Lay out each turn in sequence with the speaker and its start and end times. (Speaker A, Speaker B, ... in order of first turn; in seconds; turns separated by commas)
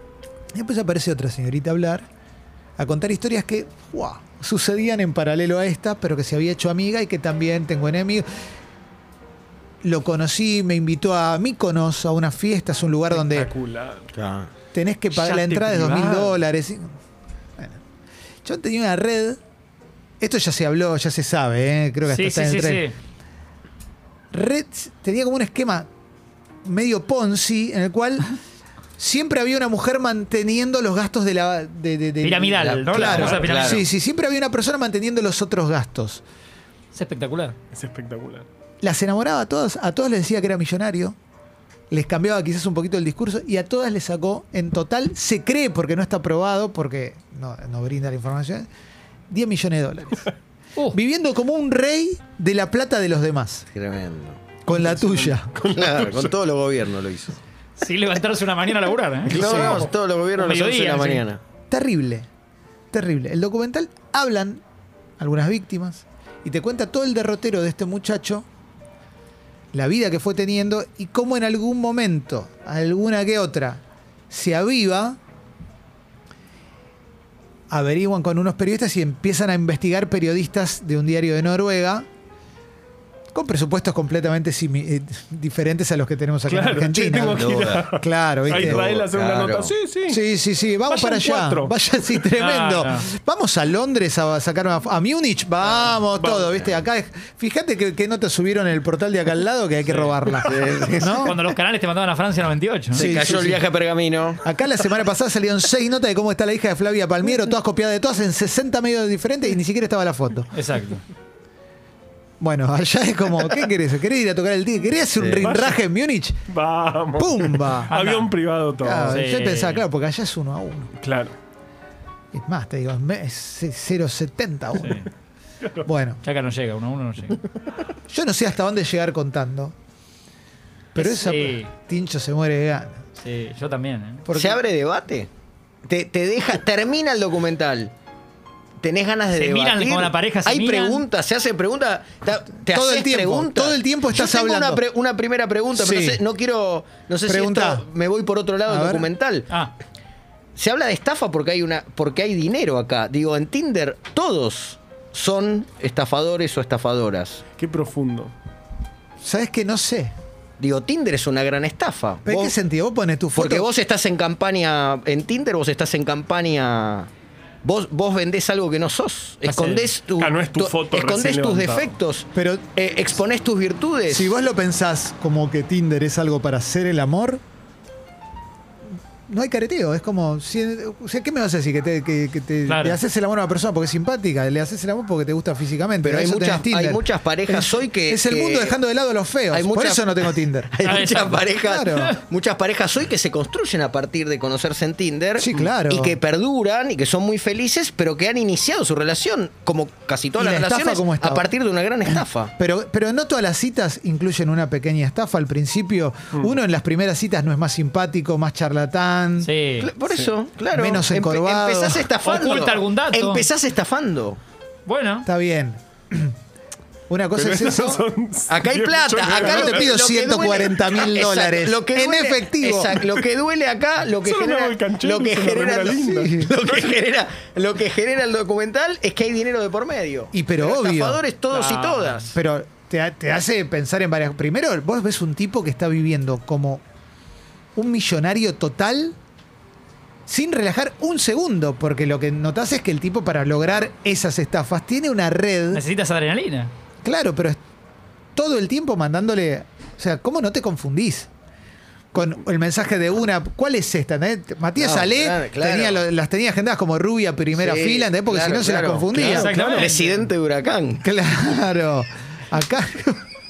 Speaker A: 0.5-2.1, Speaker A: 2.8-8.3, Speaker A: 9.8-13.5, Speaker B: 13.1-14.1, Speaker C: 14.1-14.5, Speaker A: 14.7-16.9, Speaker B: 15.1-16.4, Speaker A: 18.4-19.4, Speaker A: 20.2-22.9, Speaker D: 22.1-22.9, Speaker A: 24.3-25.9, Speaker A: 26.6-28.3, Speaker A: 29.0-36.2, Speaker D: 32.2-33.9, Speaker C: 32.6-33.8, Speaker B: 33.0-33.4, Speaker D: 36.9-37.6, Speaker B: 37.7-38.5, Speaker A: 38.8-41.2, Speaker A: 41.9-48.7, Speaker A: 49.3-50.3, Speaker A: 50.9-53.7, Speaker C: 53.7-54.5, Speaker A: 54.6-55.6, Speaker B: 54.7-56.4, Speaker C: 55.7-57.4, Speaker D: 57.8-61.2, Speaker C: 59.3-61.4, Speaker A: 59.3-59.9, Speaker A: 61.7-62.3, Speaker A: 62.9-64.6, Speaker A: 65.2-68.5, Speaker A: 69.7-75.2, Speaker A: 77.7-82.1, Speaker A: 83.3-88.9, Speaker B: 86.5-90.2, Speaker C: 87.3-87.8, Speaker C: 88.5-89.7, Speaker A: 90.1-101.4, Speaker B: 90.8-91.8, Speaker D: 92.3-93.1, Speaker B: 96.1-96.5, Speaker C: 100.4-101.2, Speaker D: 101.2-103.2, Speaker A: 102.9-103.6, Speaker C: 103.0-104.4, Speaker A: 104.4-110.5, Speaker D: 110.5-111.0, Speaker A: 112.4-116.4, Speaker C: 115.2-115.5, Speaker B: 115.4-115.8, Speaker B: 116.5-119.2, Speaker A: 117.2-117.9, Speaker D: 117.9-118.3, Speaker A: 118.8-120.9, Speaker D: 119.1-119.8, Speaker B: 121.0-121.4, Speaker A: 122.3-125.0, Speaker D: 124.8-125.1, Speaker A: 125.8-126.2, Speaker D: 126.2-127.4, Speaker A: 128.1-129.7, Speaker A: 130.9-133.1, Speaker D: 131.0-131.7, Speaker D: 133.2-134.2, Speaker A: 134.3-134.6, Speaker C: 134.3-135.3, Speaker C: 135.9-137.9, Speaker C: 138.8-149.5, Speaker D: 139.3-141.0, Speaker A: 142.7-144.8, Speaker A: 145.8-146.2, Speaker A: 147.2-147.9, Speaker A: 148.7-149.1, Speaker C: 150.6-157.4, Speaker B: 157.6-158.3, Speaker A: 159.2-160.2, Speaker C: 160.6-162.6, Speaker A: 162.2-163.7, Speaker C: 163.3-167.1, Speaker C: 167.6-174.3, Speaker D: 169.4-169.9, Speaker B: 170.2-172.0, Speaker A: 172.3-172.7, Speaker A: 174.1-177.4, Speaker A: 179.3-190.8, Speaker D: 182.7-183.0, Speaker C: 186.0-188.8, Speaker C: 189.5-202.5, Speaker D: 190.8-192.2, Speaker A: 191.6-192.1, Speaker A: 195.4-196.2, Speaker A: 200.4-201.5, Speaker A: 202.6-209.5, Speaker D: 209.4-209.9, Speaker C: 209.8-214.4, Speaker A: 210.7-212.1, Speaker D: 212.2-213.5, Speaker D: 214.9-215.3, Speaker A: 215.2-216.3, Speaker A: 217.1-218.0, Speaker B: 217.3-220.0, Speaker C: 218.5-232.4, Speaker A: 219.5-223.0, Speaker B: 224.2-227.0, Speaker A: 225.9-226.5, Speaker A: 230.3-231.2, Speaker D: 231.5-232.2, Speaker A: 232.3-236.8, Speaker A: 237.8-239.2, Speaker A: 240.3-245.8, Speaker D: 245.7-246.7, Speaker A: 247.0-247.6, Speaker A: 248.4-251.3, Speaker A: 252.1-259.6, Speaker C: 254.8-256.0, Speaker C: 257.5-261.0, Speaker D: 259.1-260.1, Speaker B: 259.5-259.9, Speaker A: 261.0-263.2